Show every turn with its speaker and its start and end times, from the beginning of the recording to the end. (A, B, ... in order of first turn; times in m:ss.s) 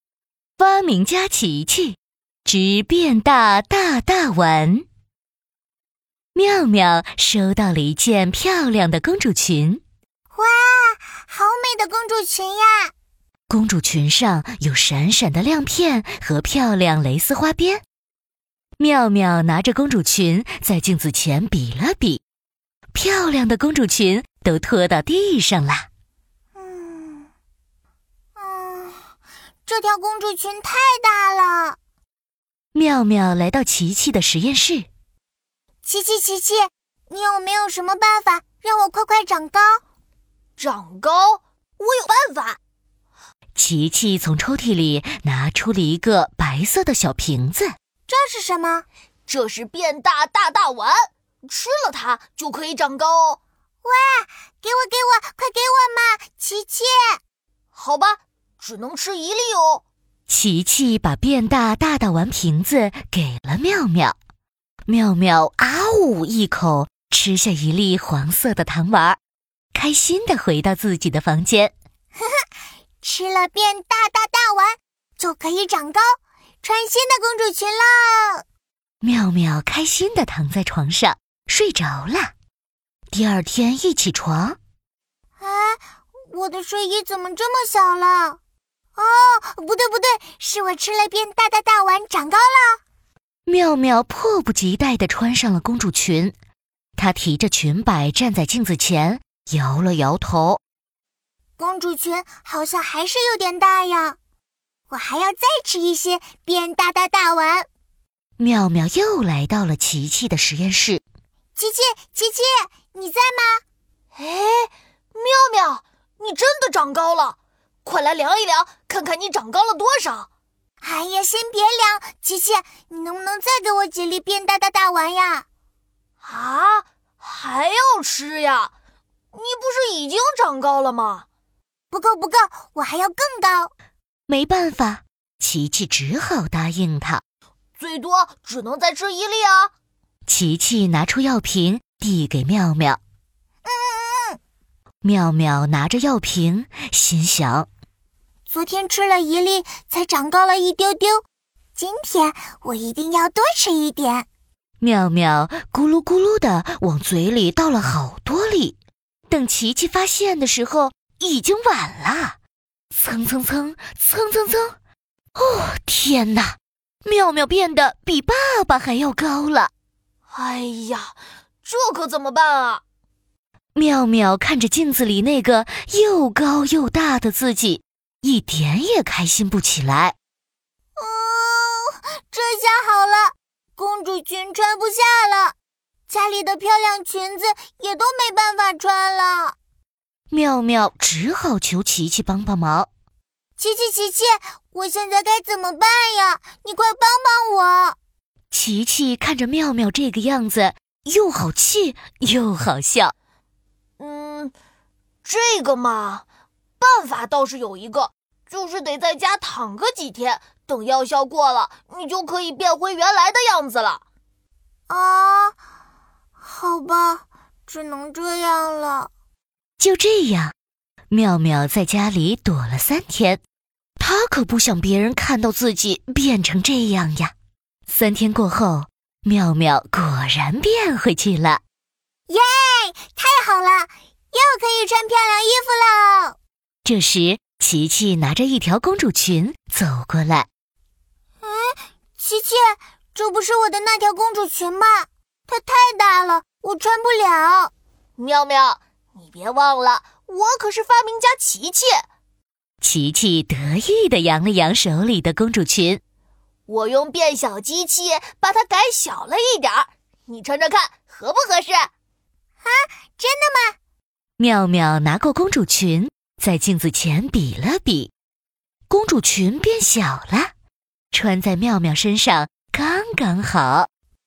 0:00.6-0:04.8 A
0:06.4-0:09.8 A
0:10.3-0:12.9 B
0:13.5-0:17.8 A
0:18.8-0:22.2 A
0:22.9-0:25.9 A
0:26.6-0:27.3 B
0:28.4-0:29.1 B
0:29.7-0:31.8 B
0:32.7-0:34.9 A
0:35.8-0:39.8 B
0:40.6-0:42.6 C
0:43.6-0:47.8 A
0:48.1-0:48.9 B
0:49.3-0:53.4 C
0:53.8-0:57.2 B
0:57.8-0:59.8 C
1:00.3-1:04.2 A
1:04.9-1:09.2 A
1:09.7-1:11.7 A
1:13.0-1:18.4 B
1:19.0-1:22.3 A
1:23.1-1:24.6 A
1:25.4-1:28.4 B
1:29.0-1:32.8 B
1:33.5-1:36.3 A
1:37.0-1:40.6 A
1:41.6-1:44.2 B
1:44.9-1:47.7 B
1:48.4-1:51.0 A
1:51.6-1:53.6 B
1:54.2-2:00.3 C
2:00.8-2:05.5 B
2:06.2-2:08.7 C
2:09.3-2:11.2 C
2:11.9-2:13.7 B
2:14.3-2:17.2 A
2:17.8-2:19.7 C
2:20.3-2:23.0 A
2:23.6-2:24.4 B
2:25.0-2:27.7 A
2:28.5-2:31.2 B
2:31.8-2:34.3 B
2:34.8-2:38.8 A
2:39.3-2:42.4 A
2:42.9-2:44.8 A
2:45.4-2:49.7 A
2:50.3-2:52.8 C
2:53.8-3:00.2 A
3:01.0-3:05.6 B
3:06.1-3:09.6 B
3:10.3-3:12.9 A
3:13.6-3:18.0 B
3:18.5-3:23.1 A
3:24.0-3:24.5 C
3:25.2-3:26.2 C
3:26.8-3:34.0 C
3:34.9-3:35.6 B
3:36.4-3:39.1 B
3:39.8-3:40.5 A
3:41.1-3:43.4 A
3:44.0-3:47.3 A
3:47.9-3:51.6 A
3:52.3-3:56.4 B
3:56.8-4:00.5 A
4:01.4-4:07.7 B
4:08.2-4:12.1 C
4:12.8-4:16.0 A
4:16.7-4:21.9 C
4:22.6-4:23.8 B
4:24.4-4:28.1 A
4:28.9-4:30.5 A
4:31.1-4:33.9 A